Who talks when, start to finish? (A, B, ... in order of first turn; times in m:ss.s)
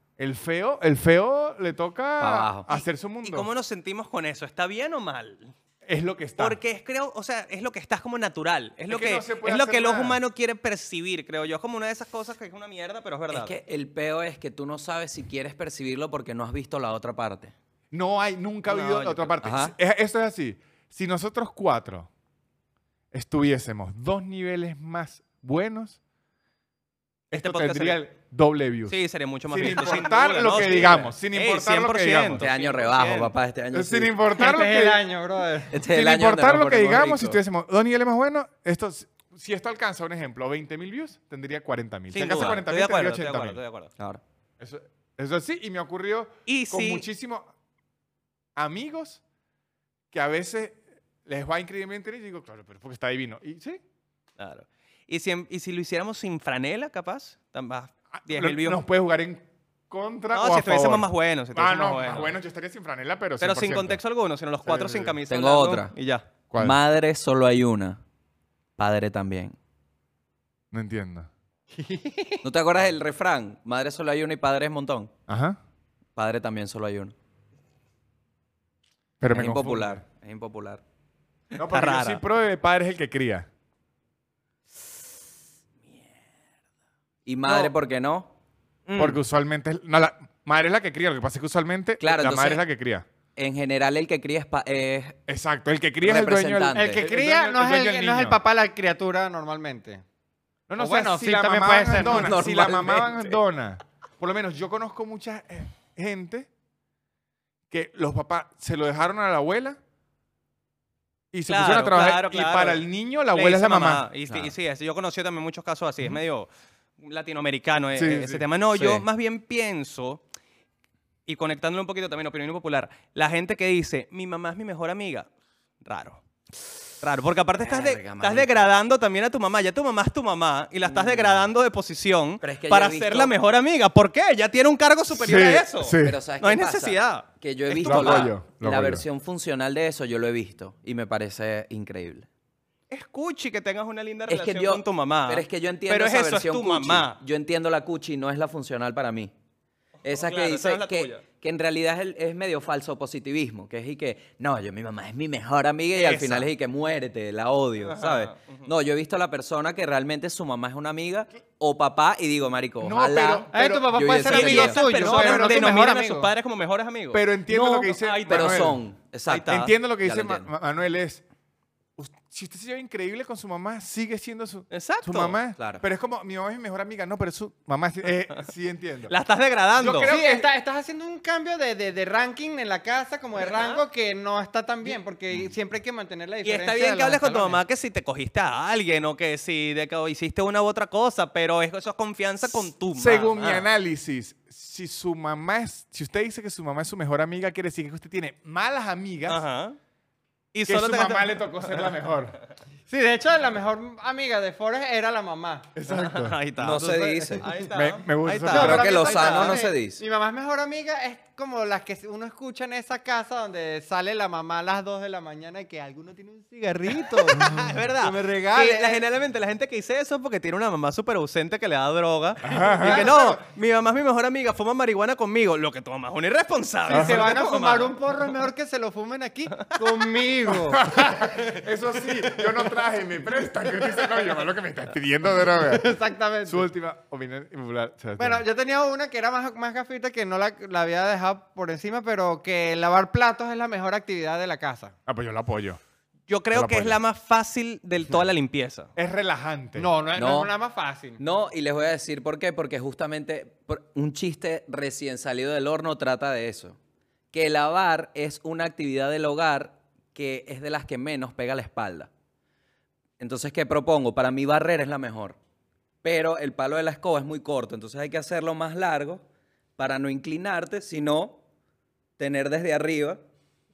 0:00.2-0:03.5 A
0:02.2-0:02.6 B
0:02.7-0:05.5 C
0:05.8-0:06.6 A
0:06.4-0:13.5 C
0:08.9-0:10.2 A
0:13.3-0:17.5 B
0:17.9-0:22.1 A
0:18.7-0:19.3 C
0:19.4-0:19.7 B
0:23.1-0:26.0 A
0:27.3-0:29.0 A
0:27.3-0:28.0 C
0:28.9-0:33.3 C
0:29.5-0:32.5 A
0:32.4-0:34.1 B
0:33.7-0:35.0 A
0:34.4-0:35.8 D
0:35.7-0:37.4 B
0:35.8-0:43.6 A
0:42.1-0:43.9 C
0:44.6-0:47.5 A
0:46.5-0:47.0 C
0:48.6-0:49.2 A
0:50.1-0:53.8 A
0:54.4-0:58.8 C
0:58.1-1:04.0 A
1:00.3-1:02.4 C
1:03.4-1:06.2 C
1:04.6-1:05.2 A
1:05.3-1:05.9 B
1:06.5-1:06.8 A
1:06.6-1:08.0 B
1:08.8-1:09.6 B
1:10.7-1:11.3 A
1:11.7-1:12.4 D
1:12.4-1:15.1 B
1:15.3-1:15.6 A
1:16.2-1:17.1 B
1:19.2-1:20.0 A
1:19.3-1:20.8 B
1:21.5-1:23.5 A
1:21.6-1:22.2 C
1:27.2-1:28.3 B
1:28.9-1:29.2 B
1:29.0-1:33.0 A
1:32.0-1:32.6 B
1:33.4-1:35.2 B
1:35.3-1:38.4 A
1:36.0-1:37.0 B
1:36.7-1:40.0 D
1:40.7-1:46.5 A
1:40.8-1:42.5 D
1:42.0-1:43.4 B
1:47.7-1:49.8 A
1:51.3-1:54.1 A
1:51.5-2:00.2 C
1:57.9-1:58.4 A
1:58.7-1:59.0 B
2:01.2-2:05.3 C
2:05.8-2:06.2 C
2:07.0-2:18.3 C
2:07.6-2:08.7 B
2:10.8-2:11.5 B
2:12.4-2:13.3 B
2:15.1-2:16.2 A
2:16.0-2:22.3 B
2:17.8-2:19.0 A
2:22.9-2:27.2 C
2:24.3-2:29.3 B
2:30.0-2:31.2 C
2:30.0-2:44.8 B
2:36.0-2:36.4 C
2:36.1-2:36.4 A
2:37.8-2:38.7 C
2:42.8-2:44.0 A
2:43.5-2:46.3 D
2:44.2-2:47.2 C
2:44.9-2:45.8 A
2:47.1-2:48.8 A
2:47.5-2:50.5 B
2:48.0-2:48.7 C
2:49.3-2:49.7 C
2:49.5-2:51.2 A
2:52.0-2:59.1 A
2:54.7-2:55.4 C
2:55.6-2:55.8 B
2:59.1-3:00.2 C
2:59.8-3:00.5 A
3:00.0-3:07.6 D
3:03.4-3:03.8 C
3:06.4-3:13.7 C
3:12.5-3:19.4 A
3:19.3-3:19.8 C
3:20.5-3:22.0 C
3:20.6-3:22.4 A
3:22.9-3:25.7 D
3:25.7-3:26.4 A
3:25.9-3:29.6 C
3:26.6-3:27.5 B
3:26.8-3:27.5 D
3:27.7-3:29.2 A
3:28.5-3:30.0 B
3:28.5-3:39.0 D
3:37.0-3:47.9 C
3:37.4-3:37.7 A
3:42.4-3:43.2 A
3:42.5-3:43.4 D
3:46.9-3:51.5 D
3:46.9-3:47.3 A
3:49.5-3:50.0 C
3:50.7-3:55.9 A
3:55.5-3:56.7 D
3:56.4-3:58.4 A
3:58.2-4:04.9 D
4:05.1-4:05.8 A
4:06.3-4:08.9 C
4:06.5-4:07.0 A
4:09.0-4:09.9 A
4:09.8-4:11.2 D
4:10.1-4:10.5 B
4:11.2-4:16.8 B
4:17.3-4:22.1 B
4:23.2-4:25.4 B
4:26.0-4:29.2 B
4:29.8-4:31.4 B
4:32.2-4:33.2 B